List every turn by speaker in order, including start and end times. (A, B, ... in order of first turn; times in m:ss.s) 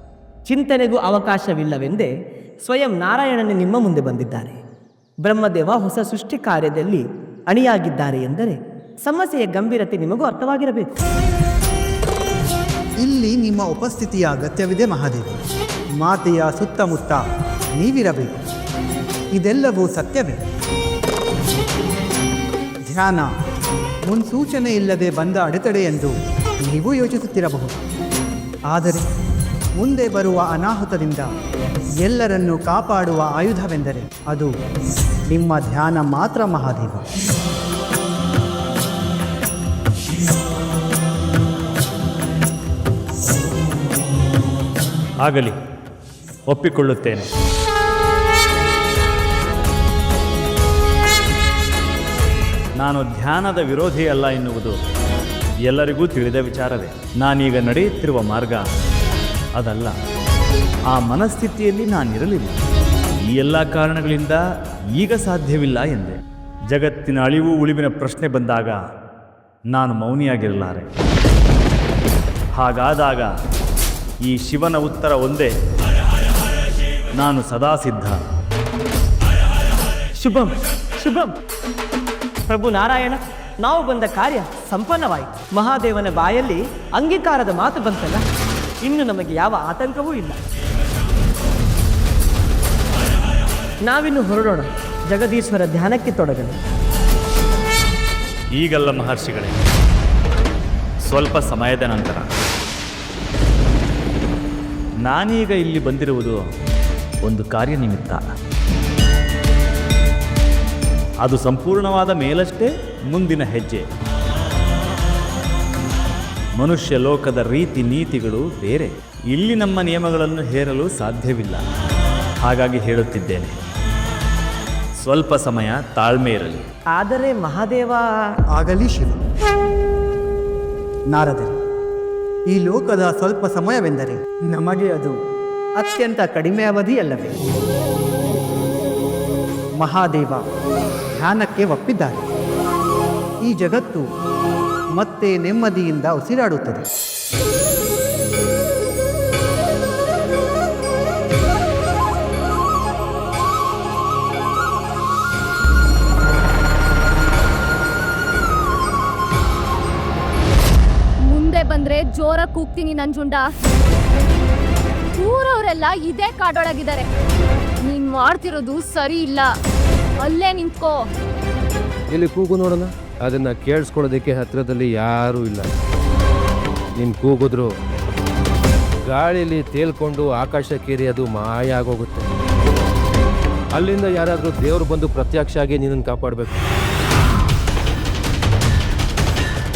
0:00.5-0:02.1 A
0:02.7-0:04.6 A
0:05.2-0:10.9 A
0:13.0-0:15.4 B
0:16.0-0:17.2 B
0:17.8-0:18.4 B
0:19.4-0:20.4 B
0:22.9-0:23.3 B
0:24.1-0:26.1 B
0:26.6-0:27.8 B
0:28.7-0:29.0 B
0:29.8-0:31.3 B
0:32.0-0:34.5 B
0:35.3-0:37.0 B
0:45.2-0:45.6 C
0:46.5-0:47.3 C
0:52.8-0:54.8 C
0:55.7-0:58.6 C
0:59.6-1:00.0 C
1:00.9-1:02.6 C
1:03.3-1:04.4 C
1:05.0-1:06.2 C
1:06.7-1:08.8 C
1:09.7-1:10.9 C
1:12.6-1:13.3 C
1:14.2-1:15.5 C
1:17.2-1:18.2 C
1:20.2-1:21.4 A
1:22.5-1:28.2 A
1:28.8-1:30.4 A
1:33.8-1:36.6 A
1:38.6-1:39.6 C
1:41.1-1:42.3 C
1:45.0-1:46.4 C
1:47.2-1:48.2 C
1:51.2-1:53.8 C
1:56.6-2:01.6 C
2:02.4-2:03.5 C
2:05.0-2:06.6 C
2:07.0-2:08.1 A
2:08.5-2:09.2 B
2:11.1-2:11.5 B
2:12.5-2:15.2 B
2:15.8-2:17.4 B
2:19.8-2:20.4 B
2:21.1-2:22.3 B
2:23.4-2:24.0 B
2:25.0-2:26.8 B
2:41.3-2:43.5 D
2:45.2-2:47.1 D
2:47.8-2:49.5 D
2:50.2-2:51.1 D
2:52.1-2:55.7 E
2:57.0-2:57.8 E
2:59.0-3:02.3 E
3:03.7-3:06.6 E